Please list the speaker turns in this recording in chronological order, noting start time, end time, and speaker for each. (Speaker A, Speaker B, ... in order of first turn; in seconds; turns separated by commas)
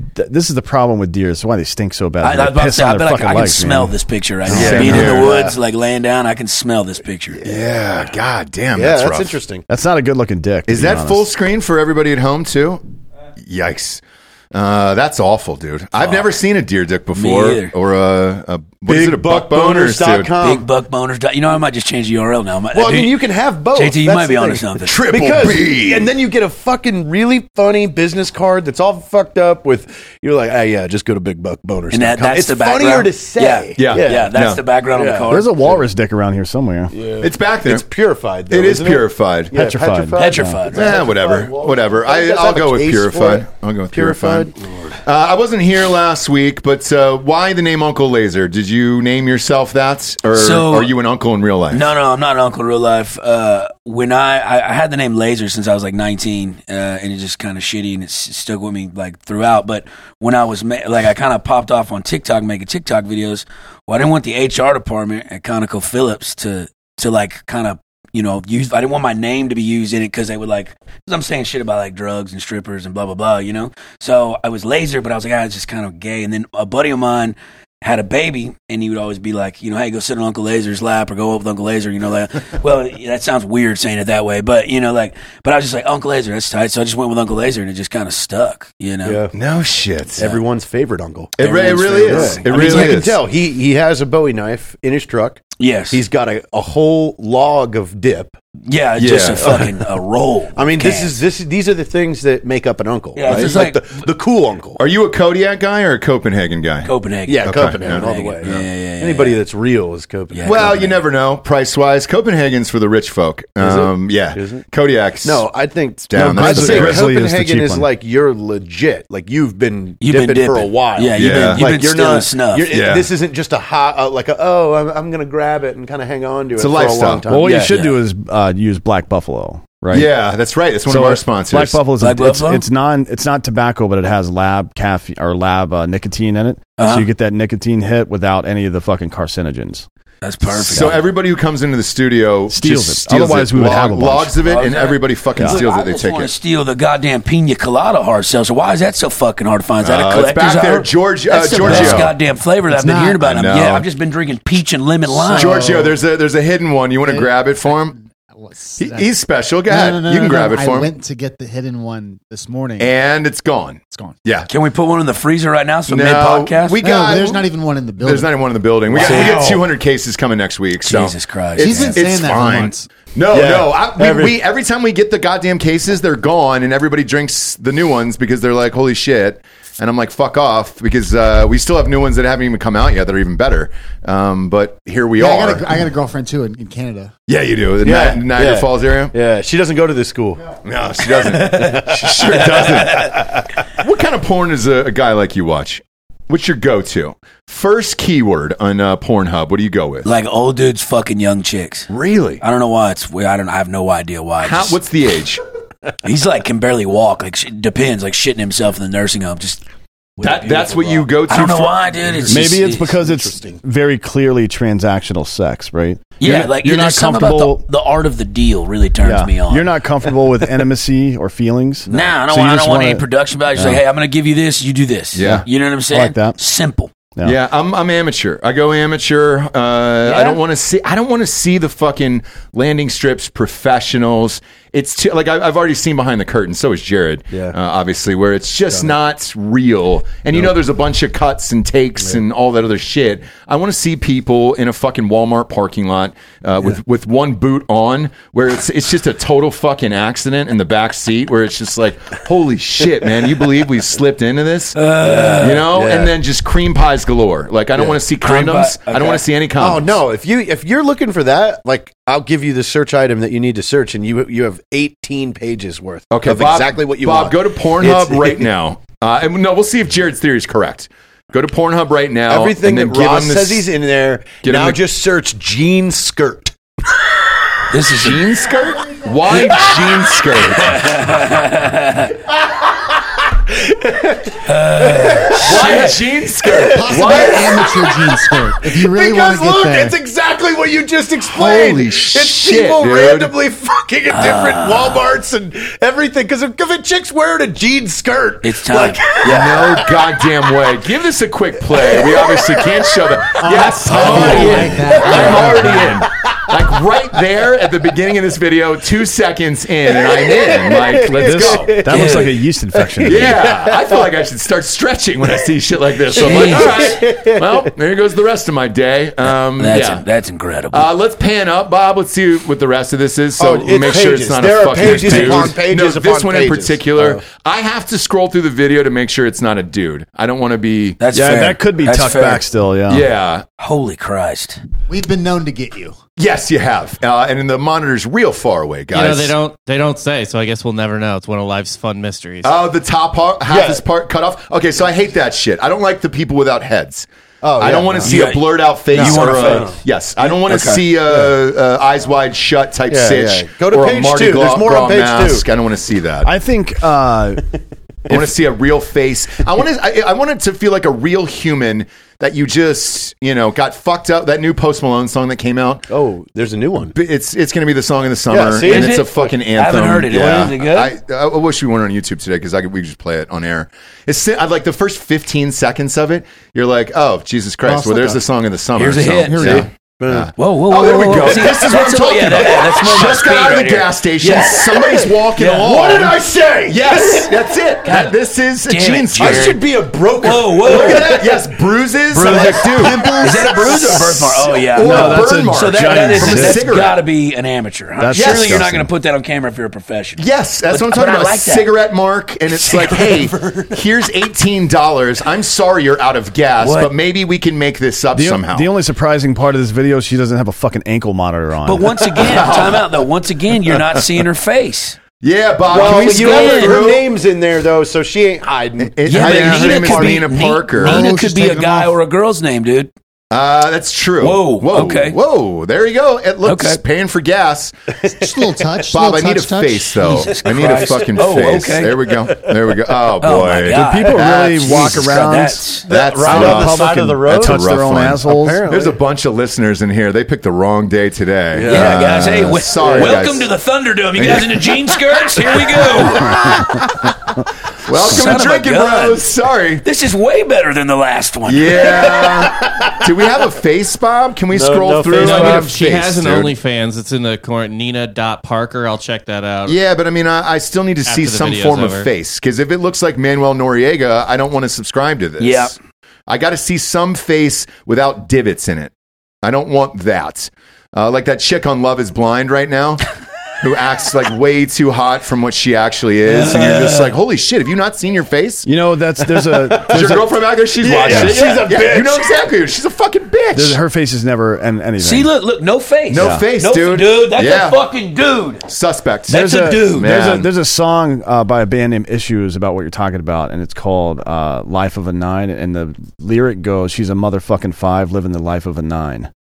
Speaker A: 0.1-5.1, Speaker B: 2.2-7.4, Speaker C: 4.5-5.4, Speaker D: 4.5-5.6, Speaker C: 7.4-9.4, Speaker D: 8.8-9.7, Speaker A: 9.7-11.3, Speaker C: 10.7-12.8, Speaker C: 13.4-14.0, Speaker C: 14.5-20.4, Speaker B: 16.0-16.3, Speaker B: 17.1-17.7, Speaker D: 18.9-20.7, Speaker B: 20.4-25.0, Speaker D: 22.7-34.3, Speaker C: 24.9-26.1, Speaker B: 31.9-35.6, Speaker C: 33.8-34.6, Speaker D: 34.9-35.8, Speaker A: 35.3-36.9, Speaker D: 36.9-44.9, Speaker C: 37.2-37.9, Speaker C: 38.5-39.6, Speaker A: 39.5-40.6, Speaker B: 40.2-41.1, Speaker C: 40.7-44.5, Speaker C: 45.0-51.9, Speaker B: 50.3-50.9, Speaker B: 51.7-89.2, Speaker D: 89.0-89.3, Speaker C: 89.3-90.4, Speaker D: 90.2-98.4, Speaker C: 91.4-93.2, Speaker B: 91.4-93.0, Speaker B: 95.6-96.0, Speaker B: 98.6-101.2, Speaker C: 99.0-99.6, Speaker D: 99.4-99.7, Speaker D: 100.5-104.8, Speaker B: 103.2-104.1, Speaker C: 103.3-103.6, Speaker C: 104.8-106.9, Speaker B: 106.8-109.4, Speaker D: 107.3-110.9, Speaker C: 107.4-108.6, Speaker B: 110.3-111.0, Speaker C: 110.5-115.5, Speaker D: 113.6-114.7, Speaker D: 115.2-127.7, Speaker C: 116.1-117.1, Speaker A: 116.2-117.9, Speaker B: 120.0-122.8, Speaker C: 121.2-121.7, Speaker C: 122.7-123.1, Speaker C: 126.6-127.3, Speaker A: 127.3-130.1, Speaker B: 127.4-128.0, Speaker C: 129.9-131.8, Speaker A: 130.9-139.9, Speaker B: 132.0-132.7, Speaker B: 136.8-137.1, Speaker B: 140.2-141.0, Speaker C: 140.5-146.3, Speaker A: 142.5-144.4, Speaker B: 144.4-155.7, Speaker C: 149.8-152.1, Speaker A: 151.7-152.1, Speaker E: 152.7-153.2, Speaker C: 153.2-153.9, Speaker D: 155.2-155.6, Speaker C: 155.4-158.0, Speaker E: 155.6-155.9, Speaker E: 157.0-159.1, Speaker C: 158.8-160.9, Speaker E: 159.7-162.9, Speaker C: 162.8-164.5, Speaker E: 163.9-164.2, Speaker B: 164.5-166.8, Speaker C: 165.9-185.8, Speaker E: 166.8-168.4, Speaker D: 168.9-169.7, Speaker B: 169.0-169.4, Speaker B: 170.8-172.0, Speaker E: 171.6-172.8, Speaker D: 173.3-174.4, Speaker E: 185.2-187.1, Speaker C: 187.3-189.1, Speaker D: 187.8-190.6, Speaker C: 190.6-200.1, Speaker D: 191.2-193.1, Speaker B: 200.1-201.9, Speaker C: 201.9-202.4, Speaker B: 202.4-204.8, Speaker C: 204.4-205.4, Speaker B: 206.0-209.6, Speaker B: 210.2-212.9, Speaker C: 210.2-211.9, Speaker D: 212.0-213.6, Speaker A: 212.3-217.6, Speaker B: 216.2-219.7, Speaker A: 219.0-223.8, Speaker D: 221.9-222.1, Speaker B: 221.9-226.9, Speaker C: 225.1-225.5, Speaker A: 225.2-226.4, Speaker C: 227.2-254.8, Speaker B: 230.0-230.4, Speaker D: 237.3-237.6, Speaker B: 254.8-255.7, Speaker D: 255.0-256.1, Speaker C: 255.4-260.0, Speaker B: 258.2-259.2, Speaker D: 259.6-268.5, Speaker C: 266.1-273.7, Speaker D: 272.3-276.6, Speaker C: 274.4-274.8, Speaker B: 277.7-278.2, Speaker C: 277.9-281.0, Speaker B: 280.7-282.1, Speaker D: 283.3-285.9, Speaker B: 284.4-286.0, Speaker C: 285.4-287.8, Speaker D: 286.5-286.8, Speaker E: 286.7-290.0, Speaker D: 288.6-300.0, Speaker C: 291.3-293.3, Speaker B: 294.1-295.0, Speaker B: 298.4-299.8, Speaker C: 299.2-311.8, Speaker D: 301.8-302.8, Speaker E: 303.4-306.0, Speaker D: 303.9-306.5, Speaker D: 309.9-312.2, Speaker A: 311.2-313.4, Speaker B: 311.9-312.4, Speaker D: 312.8-314.1, Speaker C: 313.1-320.0, Speaker D: 316.1-317.7, Speaker B: 316.2-317.0, Speaker B: 319.6-320.9, Speaker C: 320.7-331.0, Speaker D: 323.4-327.2, Speaker B: 324.8-325.5, Speaker B: 331.0-332.5, Speaker A: 331.1-333.1, Speaker C: 332.9-333.4, Speaker B: 333.6-334.6, Speaker E: 334.9-336.0, Speaker C: 336.2-339.4, Speaker F: 338.9-342.5, Speaker C: 342.4-347.1, Speaker D: 343.4-343.8, Speaker D: 347.4-348.3, Speaker C: 347.6-356.3, Speaker B: 348.0-350.8, Speaker D: 348.9-349.8, Speaker D: 351.1-351.4, Speaker D: 352.9-355.5, Speaker A: 356.2-357.4, Speaker C: 358.1-365.9, Speaker D: 365.9-366.9, Speaker C: 366.9-389.6, Speaker D: 368.3-369.3, Speaker B: 368.6-370.9, Speaker D: 370.1-370.5, Speaker E: 377.7-378.2, Speaker B: 378.8-379.7, Speaker E: 379.3-379.7, Speaker D: 379.6-380.3, Speaker B: 380.4-386.0, Speaker D: 381.1-381.6, Speaker D: 384.2-387.4, Speaker B: 387.8-388.1, Speaker B: 388.7-389.6, Speaker D: 389.2-391.5, Speaker B: 390.2-391.2, Speaker C: 390.6-397.0, Speaker D: 392.1-394.1, Speaker B: 392.2-401.7, Speaker A: 394.8-396.8, Speaker A: 398.0-398.9, Speaker C: 398.1-398.6, Speaker C: 400.2-408.7, Speaker D: 402.5-403.8, Speaker B: 406.6-406.9, Speaker A: 408.1-411.9, Speaker B: 411.6-415.0, Speaker C: 412.2-412.9, Speaker C: 415.2-417.1, Speaker D: 415.7-420.3, Speaker B: 415.7-416.9, Speaker C: 418.8-421.1, Speaker B: 419.1-422.9, Speaker E: 420.8-422.0, Speaker C: 423.3-427.8, Speaker B: 424.2-425.2, Speaker B: 426.4-426.8, Speaker D: 428.0-428.4, Speaker E: 428.1-430.1, Speaker C: 428.9-435.4, Speaker B: 430.0-432.1, Speaker B: 433.2-435.9, Speaker A: 433.7-435.7, Speaker D: 435.9-439.0, Speaker C: 435.9-443.5, Speaker A: 436.2-438.6, Speaker D: 441.5-443.3, Speaker B: 441.6-446.5, Speaker C: 444.2-445.0, Speaker C: 445.6-447.1, Speaker C: 447.9-449.9, Speaker B: 447.9-449.2, Speaker B: 449.8-452.2, Speaker C: 451.5-456.5, Speaker D: 452.0-453.0, Speaker D: 454.5-455.8, Speaker F: 455.2-459.8, Speaker C: 459.7-465.8, Speaker F: 461.1-462.1, Speaker B: 465.4-465.8, Speaker C: 466.3-473.1, Speaker C: 473.6-478.7, Speaker B: 476.3-477.1, Speaker A: 478.6-480.2, Speaker D: 479.5-480.2, Speaker C: 479.8-483.8, Speaker D: 480.8-482.3, Speaker A: 481.1-481.5, Speaker A: 483.5-485.3, Speaker B: 485.0-488.7, Speaker C: 486.1-487.8, Speaker A: 486.2-486.4, Speaker C: 488.7-490.5, Speaker B: 489.3-490.1, Speaker A: 489.3-499.3